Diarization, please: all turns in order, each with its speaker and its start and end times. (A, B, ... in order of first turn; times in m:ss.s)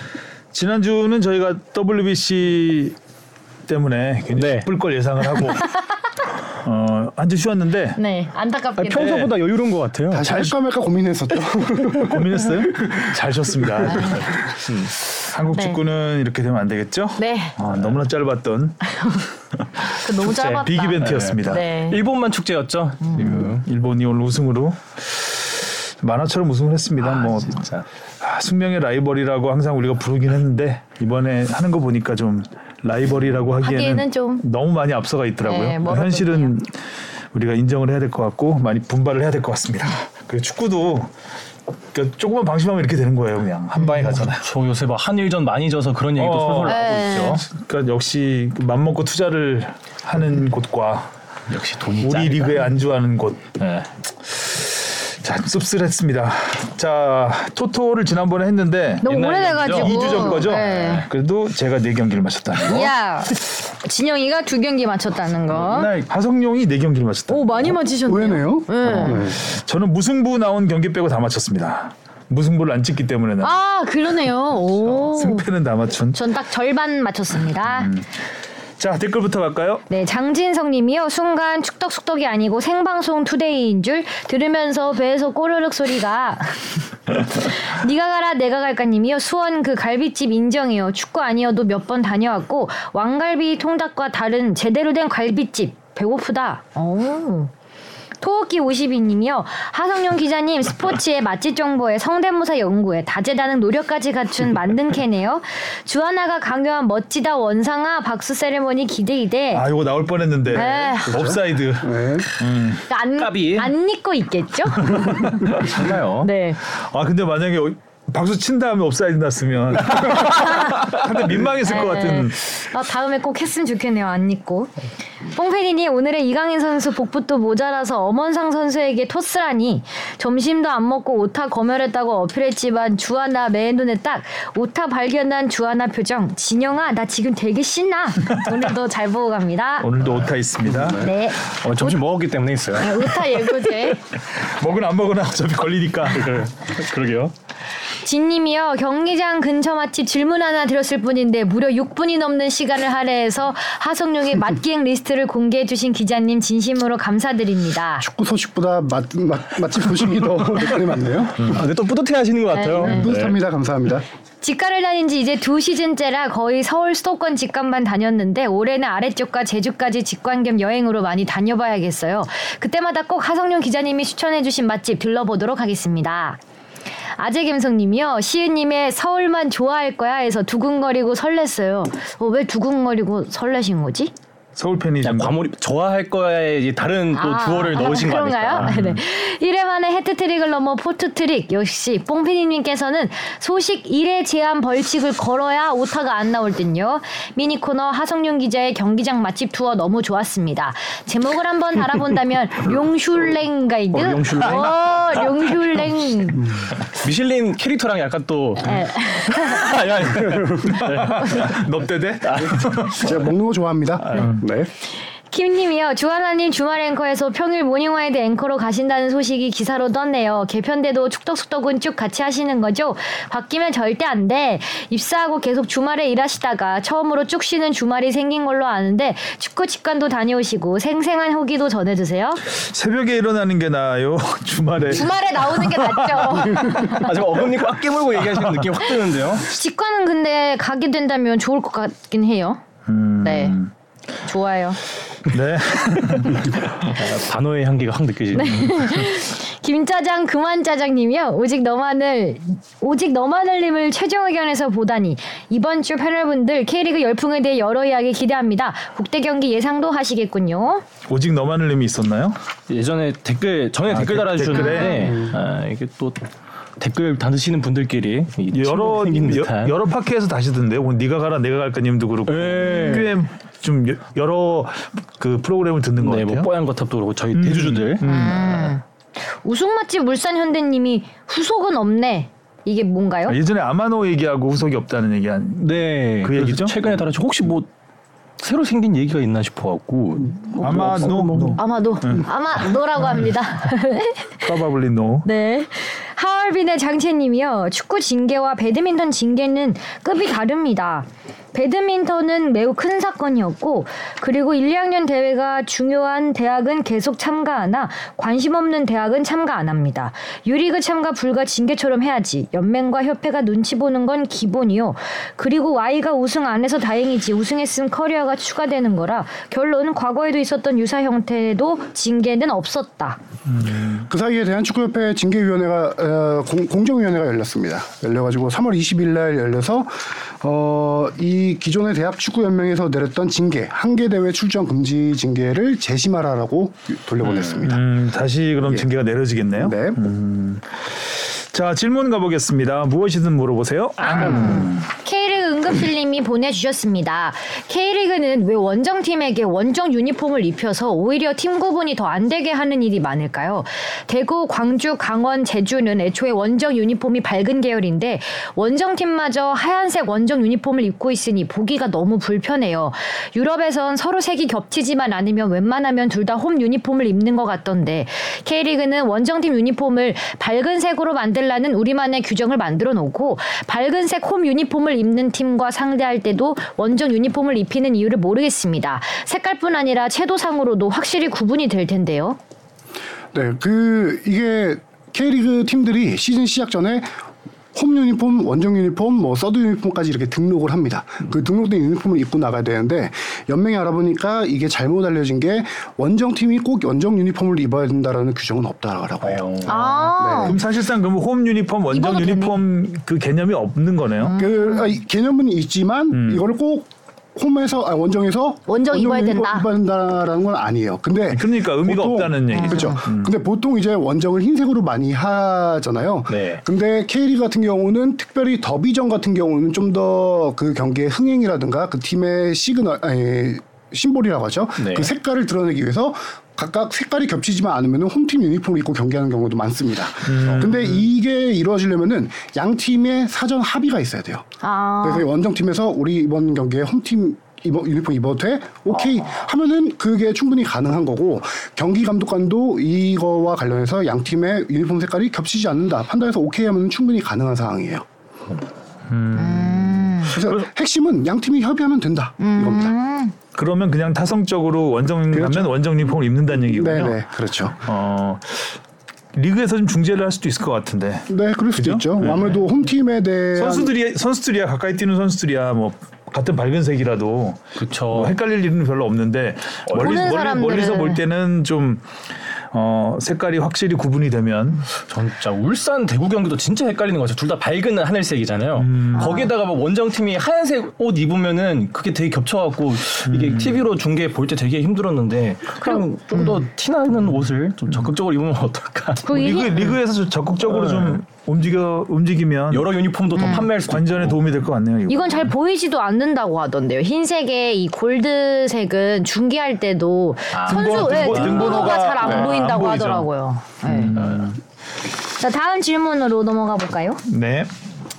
0:00.5-0:03.0 A
0:03.6-0:05.7 A
0:04.3-0:04.7 B
0:06.5-0:08.0 A
0:08.0-0:09.2 C
0:08.8-0:10.3 B
0:08.9-0:09.3 A
0:10.1-0:12.9 D
0:10.2-0:10.5 A
0:11.9-0:14.5 A
0:13.9-0:14.2 C
0:14.5-0:14.9 B
0:15.2-0:18.8 A
0:15.5-0:15.8 C
0:17.2-0:17.6 C
0:18.8-0:19.2 C
0:19.6-0:21.6 A
0:19.8-0:22.0 C
0:21.0-0:23.6 B
0:23.0-0:23.3 C
0:23.2-0:27.7 A
0:27.0-0:27.8 B
0:28.2-0:36.8 A
0:33.6-0:34.4 C
0:35.4-0:36.5 C
0:37.3-0:41.1 A
0:41.9-0:44.4 A
0:43.8-0:47.4 B
0:46.2-0:51.1 A
0:46.6-0:47.4 C
0:51.5-0:52.7 B
0:52.0-0:53.5 A
0:53.6-0:53.9 B
0:54.2-1:02.9 A
0:59.0-1:01.1 C
0:59.0-1:01.0 B
1:02.6-1:05.9 C
1:05.6-1:07.8 A
1:05.7-1:06.1 B
1:07.3-1:09.3 C
1:08.1-1:09.4 D
1:08.8-1:13.5 A
1:13.4-1:15.5 C
1:14.9-1:16.2 A
1:16.1-1:17.9 C
1:17.7-1:18.0 A
1:18.8-1:19.8 A
1:19.9-1:37.5 C
1:38.2-1:49.6 C
1:49.5-1:52.8 A
1:50.5-1:52.3 D
1:50.5-1:51.3 C
1:52.9-1:55.7 C
1:53.2-1:53.7 B
1:55.0-1:55.9 A
1:55.1-1:56.3 B
1:56.2-1:56.6 C
1:56.6-2:02.4 A
2:00.3-2:00.9 C
2:01.6-2:04.7 C
2:05.2-2:19.9 C
2:19.8-2:21.1 A
2:20.6-2:23.5 B
2:21.0-2:22.0 C
2:22.8-2:24.0 C
2:24.3-2:26.4 A
2:26.1-2:27.3 B
2:28.0-2:38.0 C
2:38.0-2:41.6 D
2:41.4-2:43.4 B
2:42.5-2:43.1 C
2:42.7-2:44.0 D
2:44.4-2:56.4 C
2:57.2-3:04.1 C
3:04.6-3:05.4 A
3:05.0-3:08.8 B
3:07.1-3:26.6 C
3:08.6-3:09.0 A
3:23.9-3:25.8 B
3:26.8-3:31.6 B
3:28.6-3:30.0 C
3:30.3-3:33.2 A
3:32.3-3:32.6 B
3:32.6-3:34.7 D
3:34.0-3:34.4 A
3:35.3-3:52.4 C
3:52.5-3:55.1 A
3:54.9-3:57.2 C
3:56.2-3:59.5 B
3:58.8-4:02.6 C
4:02.9-4:03.7 A
4:03.2-4:03.6 C
4:04.2-4:04.8 C
4:05.2-4:06.9 A
4:06.2-4:09.1 B
4:08.4-4:20.8 C
4:21.1-4:22.4 A
4:22.7-4:26.2 B
4:23.9-4:25.2 A
4:24.5-4:25.2 C
4:25.0-4:25.3 D
4:26.8-4:29.7 B
4:28.5-4:36.5 A
4:32.3-4:33.2 B
4:36.0-4:38.0 B
4:37.3-4:38.7 A
4:38.0-4:43.4 C
4:43.3-4:46.9 A
4:45.6-4:47.7 B
4:48.4-4:51.6 B
4:50.6-4:52.3 A
4:51.6-4:54.5 C
4:54.4-4:55.3 A
4:55.2-5:23.2 C
5:23.5-5:24.0 A
5:24.0-5:37.8 D
5:37.2-5:37.5 B
5:37.6-5:44.9 A
5:39.5-5:40.0 D
5:44.0-6:22.4 C
6:23.3-6:27.1 D
6:27.7-6:40.6 D
6:39.2-6:39.8 B
6:39.6-6:40.6 C
6:40.4-6:44.4 A
6:41.9-6:42.6 C
6:44.2-6:44.9 C
6:44.4-7:14.4 D
6:46.1-6:46.4 A
6:48.7-6:49.7 C
6:51.3-6:53.3 A
6:52.5-6:53.0 C
6:56.3-6:56.6 B
7:04.8-7:05.1 B
7:10.2-7:11.0 A
7:14.6-7:15.3 C
7:15.0-7:28.0 D
7:29.1-7:30.1 A
7:29.3-7:30.4 C
7:30.2-7:32.9 D
7:30.4-7:30.6 B
7:32.4-7:33.3 C
7:33.5-7:37.2 A
7:35.3-7:35.7 D
7:36.5-7:37.8 D
7:37.8-7:38.8 A
7:39.3-7:42.6 A
7:41.3-7:43.9 D
7:43.6-7:52.1 A
7:47.8-7:48.4 B
7:49.9-7:50.2 B
7:50.0-7:51.2 C
7:52.7-7:54.8 A
7:54.9-8:09.9 B
7:58.8-7:59.4 A
7:59.1-7:59.5 C
8:03.3-8:03.8 A
8:09.2-8:09.9 C
8:09.3-8:15.5 A
8:10.6-8:11.2 B
8:12.7-8:14.4 B
8:13.4-8:13.7 C
8:15.1-8:24.2 C
8:20.5-8:22.5 B
8:20.7-8:23.3 A
8:23.8-8:24.6 A
8:24.1-8:24.5 B
8:25.4-8:27.2 C
8:27.3-8:27.7 A